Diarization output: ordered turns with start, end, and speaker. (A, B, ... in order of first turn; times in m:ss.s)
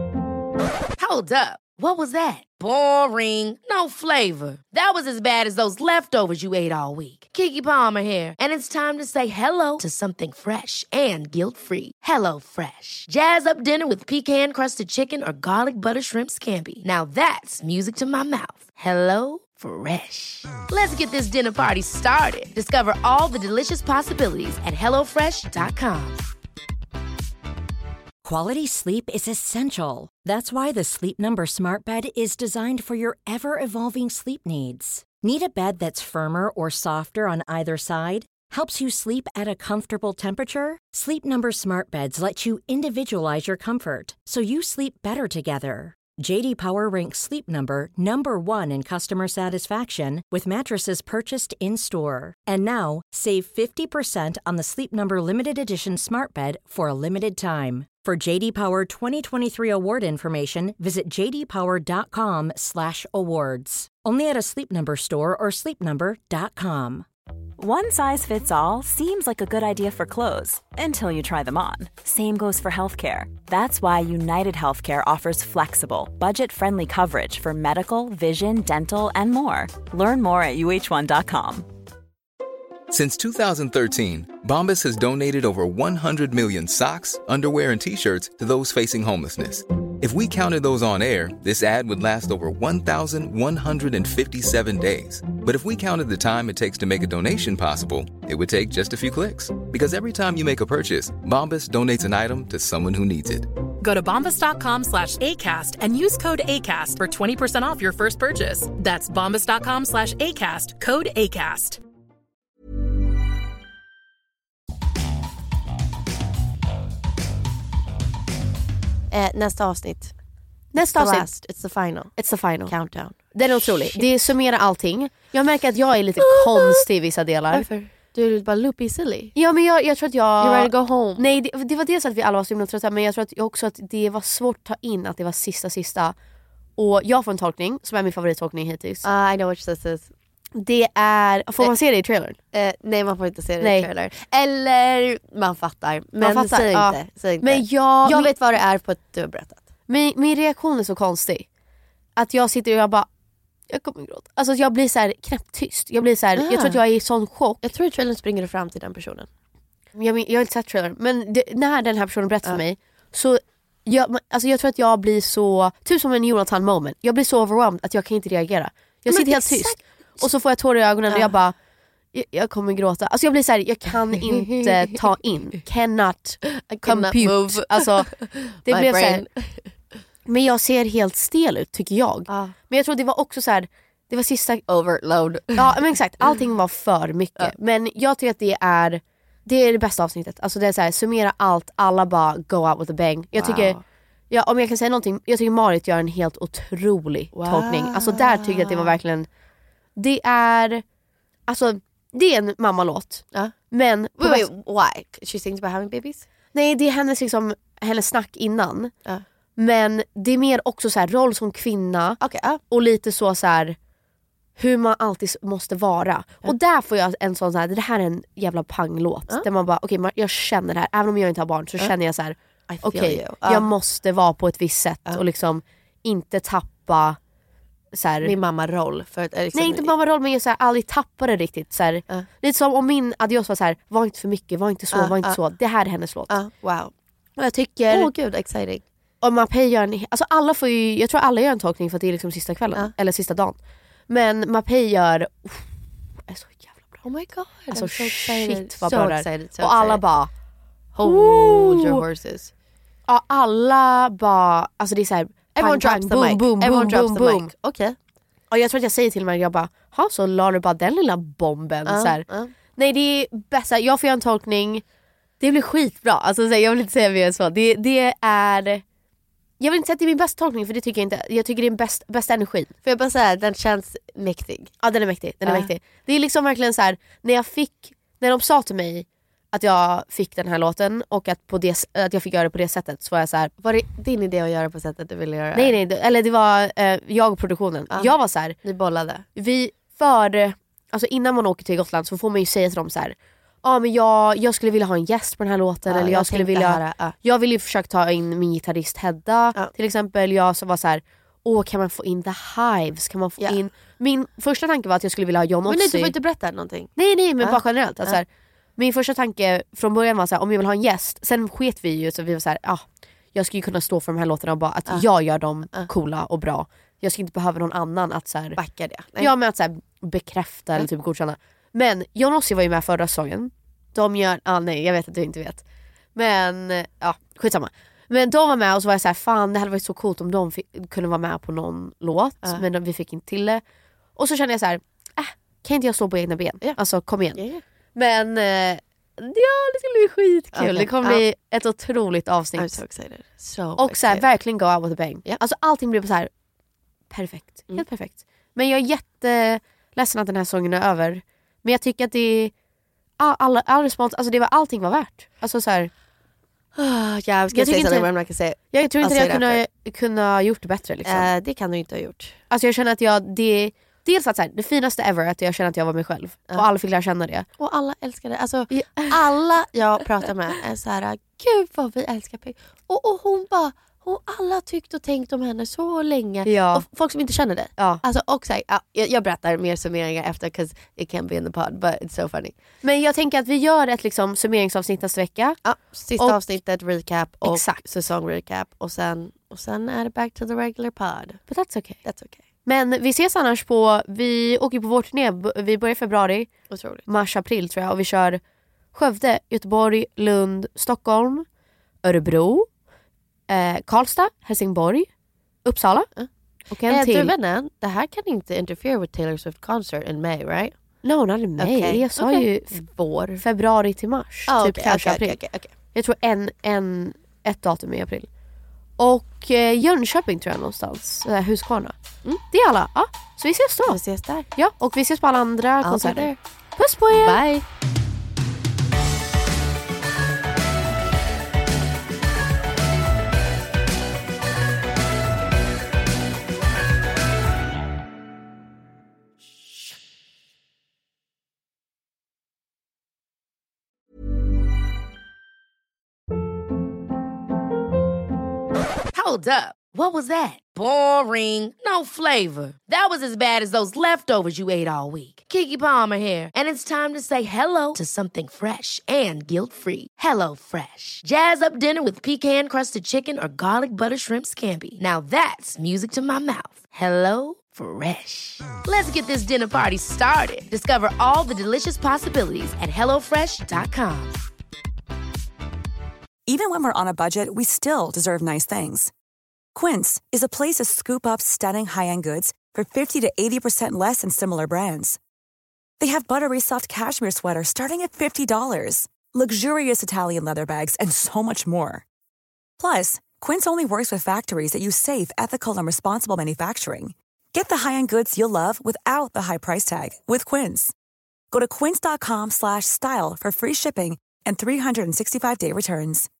0:01.0-0:26.2 A
0:28.2-1:07.0 B
1:07.6-1:21.7 C
1:22.9-1:43.5 D
1:43.8-1:51.8 E
1:59.1-2:00.1 F
2:00.7-2:01.3 G
2:00.8-2:04.1 F
2:02.2-2:02.7 G
2:03.3-2:07.6 G
2:06.2-2:06.8 F
2:07.5-2:09.3 F
2:09.3-2:16.1 G
2:10.4-2:11.3 F
2:16.8-2:19.0 G
2:19.0-2:20.1 F
2:20.6-2:22.4 G
2:22.5-2:29.6 F
2:23.6-2:23.9 G
2:26.2-2:28.3 G
2:29.9-2:31.4 G
2:32.2-2:33.1 G
2:33.7-2:37.6 G
2:36.4-2:36.8 F
2:37.6-2:39.3 F
2:40.0-2:51.5 G
2:49.1-2:49.8 F
2:52.1-2:59.2 G
2:54.1-2:55.0 F
2:56.5-2:59.6 F
3:00.2-3:04.7 G
3:02.3-3:02.5 F
3:04.7-3:05.8 F
3:05.5-3:13.8 G
3:13.3-3:13.8 F
3:14.3-3:19.3 G
3:17.3-3:19.0 F
3:20.0-3:20.8 G
3:21.5-3:24.5 G
3:24.2-3:26.3 F
3:26.5-3:28.9 G
3:29.6-3:33.8 G
3:32.2-3:32.6 F
3:34.6-3:47.2 G
3:42.7-3:43.7 F
3:47.9-3:48.3 G
3:48.2-3:49.9 F
3:49.5-3:56.3 G
3:54.9-3:55.4 F
3:56.3-3:56.9 F
3:57.4-3:58.1 G
3:57.9-3:58.8 F
3:59.2-4:03.6 G
4:04.1-4:05.7 G
4:06.3-4:07.0 G
4:07.0-4:10.0 F
4:07.7-4:10.3 G
4:10.9-4:12.5 F
4:11.0-4:12.0 G
4:13.1-4:17.5 G
4:15.6-4:18.0 F
4:18.5-4:22.2 G
4:21.8-4:22.5 F
4:22.8-4:24.8 G
4:25.4-4:28.8 G
4:29.6-4:32.7 G
4:32.8-4:34.8 F
4:34.8-4:43.5 G
4:35.4-4:35.7 F
4:43.6-4:45.7 F
4:45.5-4:48.6 G
4:47.9-4:49.2 F
4:49.4-5:06.1 G
4:55.9-4:57.1 F
5:05.7-5:08.2 F
5:07.0-5:08.2 G
5:08.8-5:18.6 G
5:18.6-5:19.3 F
5:19.2-5:25.6 G
5:26.1-5:33.6 G
5:34.2-5:37.4 G
5:37.3-5:37.6 F
5:37.9-5:42.8 G
5:40.5-5:41.2 F
5:42.6-5:44.2 F
5:43.8-5:46.3 G
5:47.1-5:52.5 G
5:53.2-5:55.9 G
5:56.8-5:59.6 F
5:57.5-5:58.1 G
5:58.7-6:01.3 G
6:01.0-6:02.4 F
6:02.5-6:07.4 G
6:07.6-6:22.5 F
6:08.7-6:09.1 G
6:16.4-6:16.8 G
6:22.8-6:25.6 G
6:25.6-6:31.4 F
6:26.2-6:26.4 G
6:27.4-6:27.8 G
6:31.5-6:32.0 G
6:32.0-6:32.4 F
6:32.6-6:36.5 G
6:36.7-6:37.0 F
6:37.1-6:38.4 G
6:38.9-6:41.4 G
6:42.0-6:42.7 G
6:43.5-6:45.1 G
6:45.6-6:46.1 G
6:46.7-6:47.3 G
6:46.8-6:50.7 F
6:51.0-6:52.8 G
6:51.6-6:53.4 F
6:53.4-6:55.4 G
6:54.5-6:55.7 F
6:55.9-6:58.3 G
6:59.0-7:02.0 G
7:02.5-7:04.0 G
7:03.9-7:04.5 F
7:04.6-7:07.4 G
7:05.8-7:06.4 F
7:07.1-7:07.6 F
7:29.1-7:54.4 A
7:56.4-7:59.1 H
7:59.7-8:05.2 H
8:06.0-8:12.0 H
8:12.8-8:20.9 H
8:21.5-8:26.3 H